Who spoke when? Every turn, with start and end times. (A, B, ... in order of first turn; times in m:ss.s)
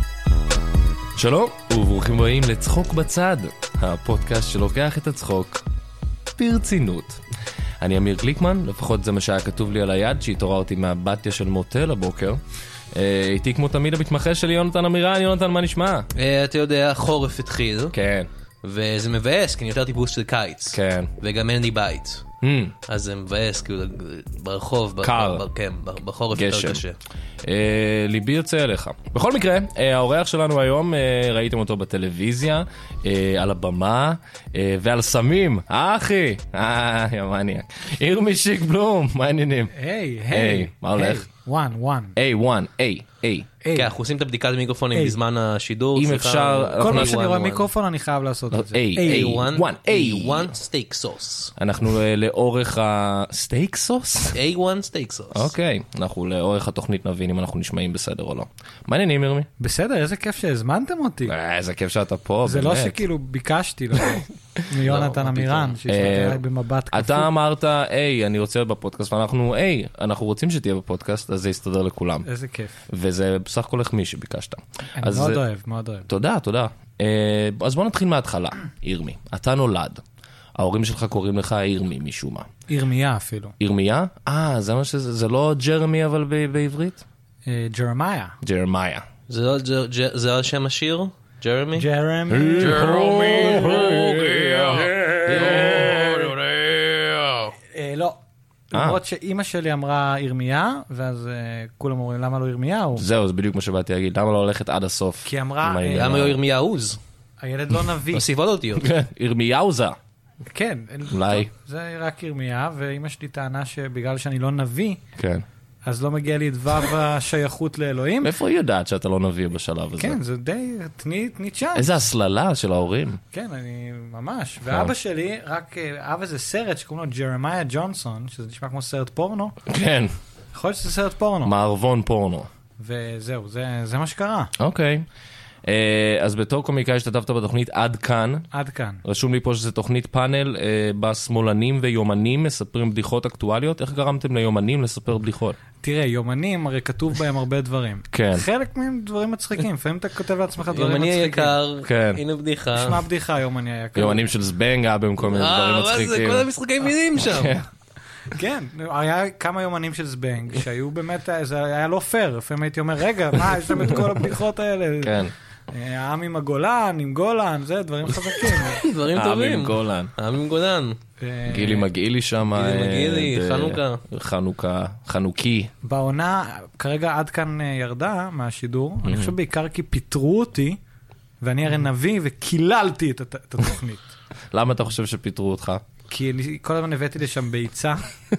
0:01.2-0:05.6 A
0:06.4-0:07.2 A
0:07.8-0:12.4 A
0:12.9-0:16.1 A
0:16.2-0:18.0 B
0:17.9-0:18.3 A
0:18.6-0:22.3 B
0:20.7-0:21.1 A
0:22.4-0:22.8 A
0:22.9-0:27.0 B
0:25.0-0:25.4 A
0:26.3-0:26.8 A
0:27.4-0:39.7 A
0:39.7-0:42.2 C
0:40.3-0:41.3 A
0:42.2-0:43.5 A
0:43.6-0:43.9 C
0:43.8-0:47.7 B
0:46.0-0:47.2 A
0:46.8-0:49.5 C
0:48.5-0:50.6 A
0:49.0-0:51.5 B
0:51.6-0:54.4 A
0:54.3-0:55.5 B
0:55.3-0:59.5 A
0:59.6-1:01.4 C
1:01.3-1:03.0 A
1:02.4-1:07.3 C
1:04.8-1:05.8 B
1:05.9-1:12.3 A
1:12.2-1:12.8 C
1:12.9-1:15.4 A
1:15.0-1:16.1 C
1:16.1-1:20.0 A
1:20.6-1:22.5 A
1:22.7-1:23.6 C
1:23.6-1:27.0 A
1:27.4-1:28.4 C
1:28.4-1:29.1 A
1:29.3-1:31.9 B
1:31.8-1:34.0 C
1:32.3-1:36.2 A
1:32.6-1:37.5 B
1:37.7-1:38.2 C
1:38.7-1:43.0 C
1:38.7-1:39.0 A
1:43.0-1:46.4 A
1:45.2-1:46.3 C
1:45.9-1:47.0 B
1:47.4-1:48.3 C
1:48.1-1:48.9 B
1:48.8-1:50.0 A
1:50.5-1:55.0 C
1:51.1-1:51.5 A
1:55.2-1:55.4 A
1:55.9-1:58.3 C
1:58.2-2:00.2 A
2:00.0-2:02.0 C
2:01.8-2:03.2 A
2:03.3-2:09.6 C
2:09.7-2:10.1 A
2:10.5-2:11.5 C
2:11.4-2:12.5 A
2:12.8-2:14.5 C
2:14.6-2:15.1 A
2:15.6-2:18.5 A
2:18.5-2:19.0 C
2:19.0-2:25.6 A
2:25.8-2:31.6 C
2:28.1-2:28.4 A
2:30.7-2:33.0 B
2:31.8-2:32.2 A
2:32.8-2:34.2 C
2:34.0-2:36.5 A
2:35.2-2:37.6 B
2:37.2-2:37.7 A
2:38.3-2:48.8 C
2:45.0-2:45.3 A
2:48.6-2:51.0 B
2:49.1-2:50.1 A
2:51.2-2:51.9 C
2:51.5-2:55.7 A
2:52.5-2:54.0 B
2:55.8-3:00.8 C
2:59.0-2:59.4 A
3:01.4-3:04.1 C
3:04.5-3:05.8 A
3:06.1-3:08.1 C